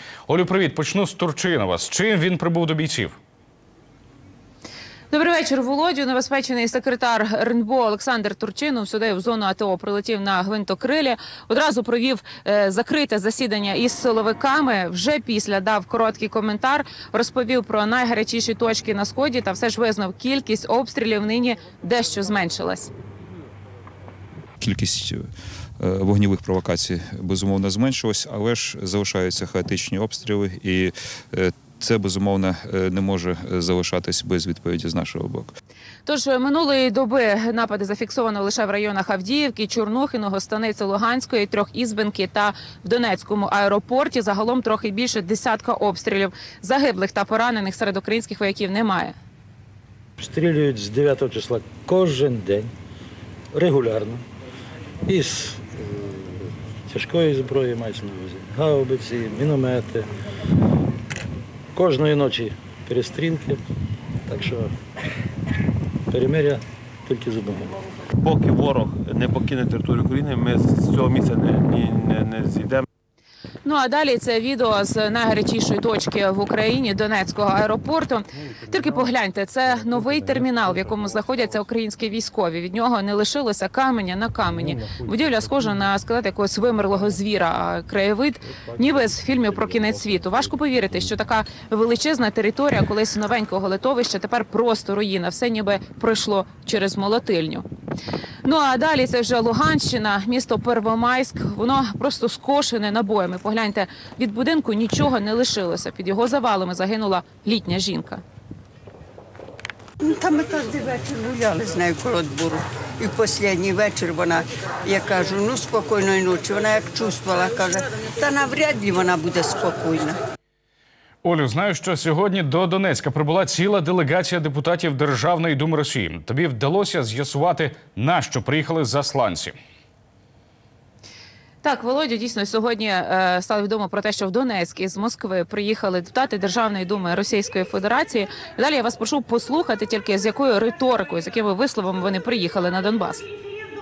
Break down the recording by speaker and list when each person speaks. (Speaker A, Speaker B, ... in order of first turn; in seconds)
Speaker A: 0.3-3.1, 121.2-129.5
Speaker B: 5.1-22.9, 36.0-49.1, 73.6-97.7, 98.4-108.2, 131.6-143.2
Speaker C: 24.6-25.2, 25.8-35.5
Speaker D: 50.2-52.6, 53.5-54.2, 55.1-55.5, 56.9-60.0, 61.8-63.5, 64.3-64.6, 66.1-66.6, 67.1-67.6
Speaker E: 68.2-72.8
Speaker F: 110.0-120.2